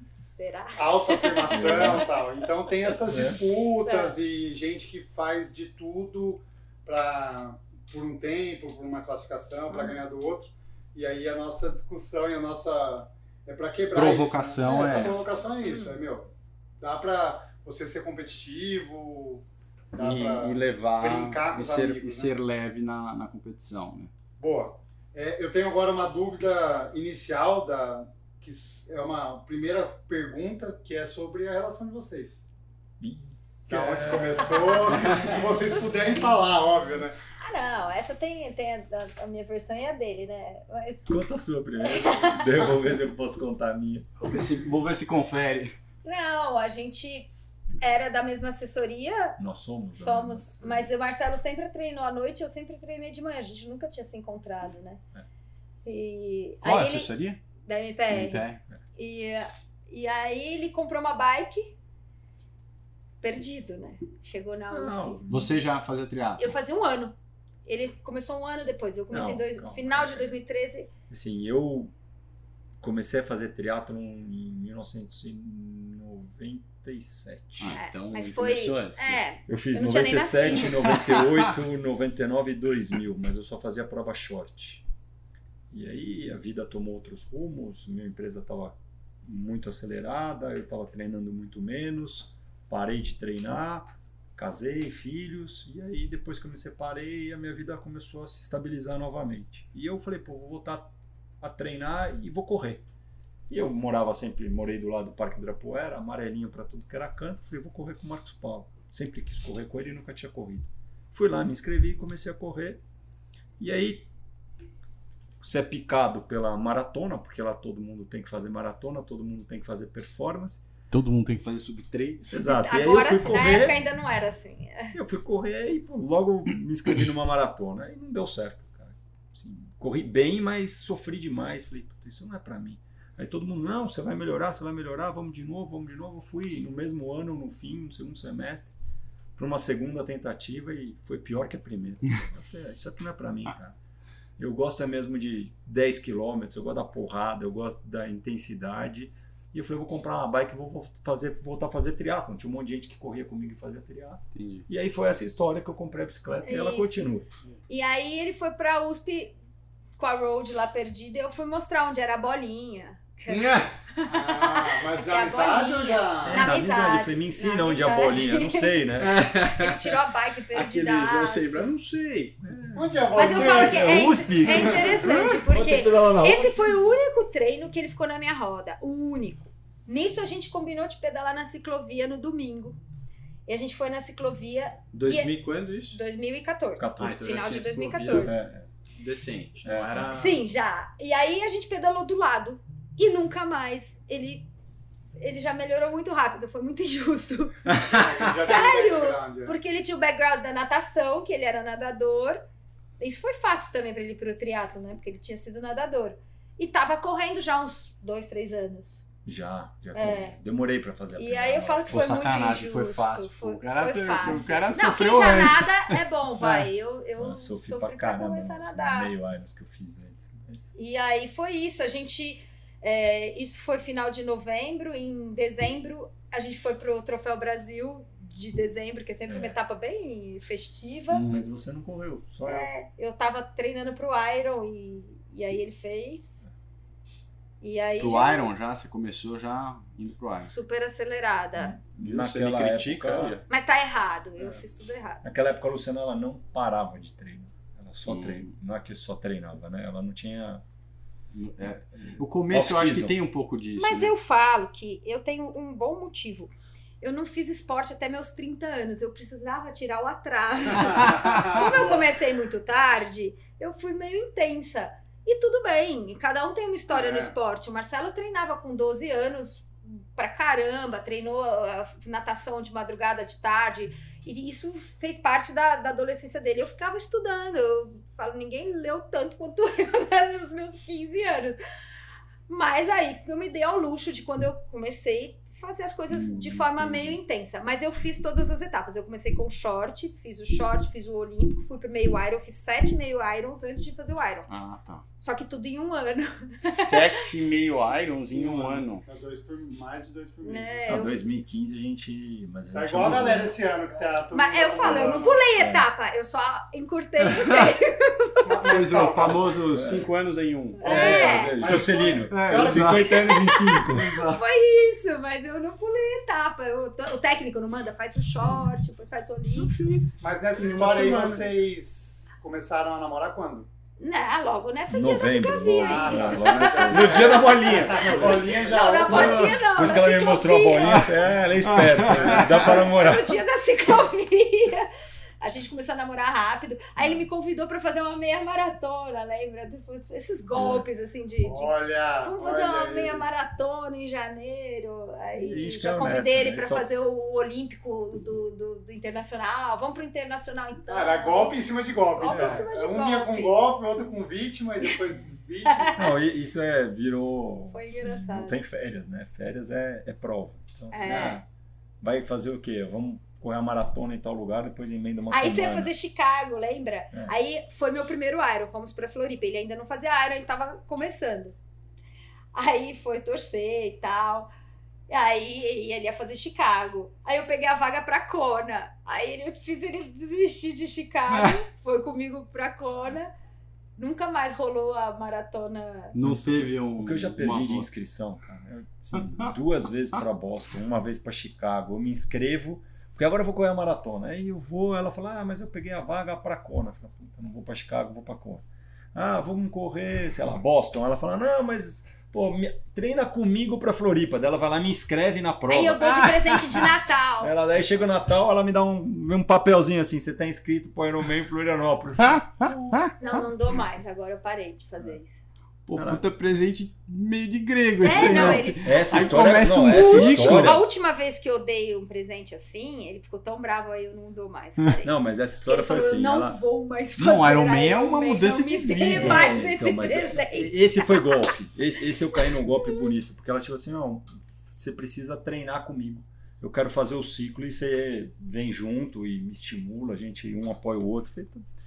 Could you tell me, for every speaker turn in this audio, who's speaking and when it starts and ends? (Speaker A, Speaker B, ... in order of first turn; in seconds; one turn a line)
Speaker A: 0.2-2.0
Speaker B: 0.8-22.3
Speaker C: 1.5-2.0
Speaker C: 3.1-3.4
Speaker A: 3.8-4.1
Speaker D: 13.9-15.3
Speaker A: 14.7-16.0
Speaker D: 19.9-24.1
Speaker B: 24.4-32.5
Speaker C: 33.0-35.1
Speaker B: 33.7-37.1
Speaker A: 34.5-35.0
Speaker A: 37.4-41.1
Speaker C: 41.1-44.1
Speaker A: 41.8-42.6
Speaker D: 44.2-45.7
Speaker A: 46.0-49.4
Speaker C: 49.4-50.9
Speaker A: 49.9-55.0
Speaker A: 55.8-57.1
Speaker D: 56.6-57.4
Speaker A: 57.6-58.4
Speaker D: 58.1-58.6
Speaker A: 59.0-61.7
Speaker A: 63.2-65.2
Speaker C: 64.7-65.6
Speaker D: 65.3-66.5
Speaker A: 66.4-70.9
Speaker C: 69.1-70.3
Speaker C: 71.1-71.9
Speaker C: 72.8-77.8
Speaker D: 77.6-79.2
Speaker A: 77.7-80.8
Speaker C: 79.5-84.8
Speaker D: 80.8-81.5
Speaker C: 85.7-100.9
Speaker C: 101.4-102.8
Speaker C: 103.5-112.8
Speaker C: 113.6-114.1
Speaker C: 115.4-120.7
Speaker D: 120.9-122.3
Speaker C: 122.2-123.8
Speaker A: 122.3-124.9
Speaker C: 124.9-138.7
Speaker C: 139.3-143.8
Speaker C: 144.4-157.3
Speaker D: 154.3-154.7
Speaker A: 156.4-157.1
Speaker A: 157.7-159.3
Speaker A: 160.0-168.7
Speaker D: 163.3-163.7
Speaker B: 164.0-166.5
Speaker C: 166.2-169.3
Speaker D: 169.0-170.0
Speaker A: 169.4-171.7
Speaker D: 170.5-172.4
Speaker C: 172.4-176.9
Speaker B: 172.7-174.9
Speaker A: 173.1-182.8
Speaker A: 183.5-185.3
Speaker D: 184.9-186.0
Speaker A: 185.9-188.3
Speaker C: 186.8-187.4
Speaker D: 187.0-188.4
Speaker C: 188.1-188.7
Speaker D: 189.0-190.4
Speaker C: 189.6-190.2
Speaker A: 190.1-194.4
Speaker A: 195.2-197.8
Speaker D: 197.7-198.0
Speaker B: 197.8-199.6
Speaker A: 198.4-202.4
Speaker A: 203.0-209.0
Speaker C: 209.2-212.1
Speaker A: 209.9-210.4
Speaker A: 211.2-219.1
Speaker D: 211.9-216.7
Speaker C: 217.2-220.7
Speaker A: 220.7-231.2
Speaker C: 229.3-229.6
Speaker D: 231.1-231.5
Speaker C: 231.2-232.7
Speaker A: 232.4-236.4
Speaker A: 237.6-238.5
Speaker D: 238.0-240.5
Speaker A: 240.4-241.8
Speaker C: 241.6-243.4
Speaker D: 242.0-243.4
Speaker A: 243.5-245.2
Speaker C: 245.2-250.6
Speaker D: 248.1-248.5
Speaker D: 251.3-254.1
Speaker C: 252.0-253.2
Speaker A: 253.8-281.6
Speaker B: 260.9-262.0
Speaker B: 266.9-267.3
Speaker A: 282.5-294.5
Speaker D: 286.1-286.9
Speaker D: 294.5-295.0
Speaker A: 295.2-297.2
Speaker D: 296.6-299.0
Speaker B: 298.3-300.9
Speaker A: 300.4-301.2
Speaker C: 300.9-303.6
Speaker B: 302.7-305.4
Speaker A: 304.3-308.6
Speaker C: 304.8-305.9
Speaker D: 307.3-307.7
Speaker B: 308.4-309.6
Speaker D: 308.6-313.2
Speaker C: 309.7-310.1
Speaker A: 310.8-311.6
Speaker C: 310.8-314.2
Speaker B: 311.0-313.1
Speaker A: 313.0-319.7
Speaker D: 313.9-314.4
Speaker C: 319.6-321.5
Speaker B: 320.2-323.7
Speaker D: 320.6-321.4
Speaker A: 324.0-331.1
Speaker C: 324.9-333.4
Speaker B: 325.7-329.5
Speaker D: 326.9-328.0
Speaker D: 329.1-329.5
Speaker D: 330.8-332.6
Speaker B: 332.1-332.9
Speaker A: 332.5-334.9
Speaker A: 335.4-351.6
Speaker C: 337.0-337.2
Speaker C: 340.5-340.8
Speaker B: 341.4-343.2
Speaker C: 345.4-346.9
Speaker B: 350.9-356.0
Speaker A: 352.2-353.6
Speaker C: 352.2-352.6
Speaker A: 355.6-356.1
Speaker C: 355.9-361.4
Speaker A: 357.7-358.6
Speaker A: 360.9-361.4
Speaker C: 362.0-365.9
Speaker A: 365.3-371.5
Speaker A: 372.5-374.5
Speaker A: 375.1-383.3
Speaker D: 381.3-381.6
Speaker A: 384.0-386.1
Speaker D: 386.1-387.9
Speaker C: 386.2-406.8
Speaker D: 389.2-389.5
Speaker A: 405.7-407.5
Speaker C: 407.4-413.1
Speaker D: 412.3-413.1
Speaker A: 413.2-415.4
Speaker D: 415.9-420.8
Speaker C: 415.9-416.2
Speaker A: 418.0-425.1
Speaker C: 418.1-420.8
Speaker C: 425.0-426.6
Speaker A: 425.6-431.4
Speaker D: 427.2-429.6
Speaker C: 428.9-441.6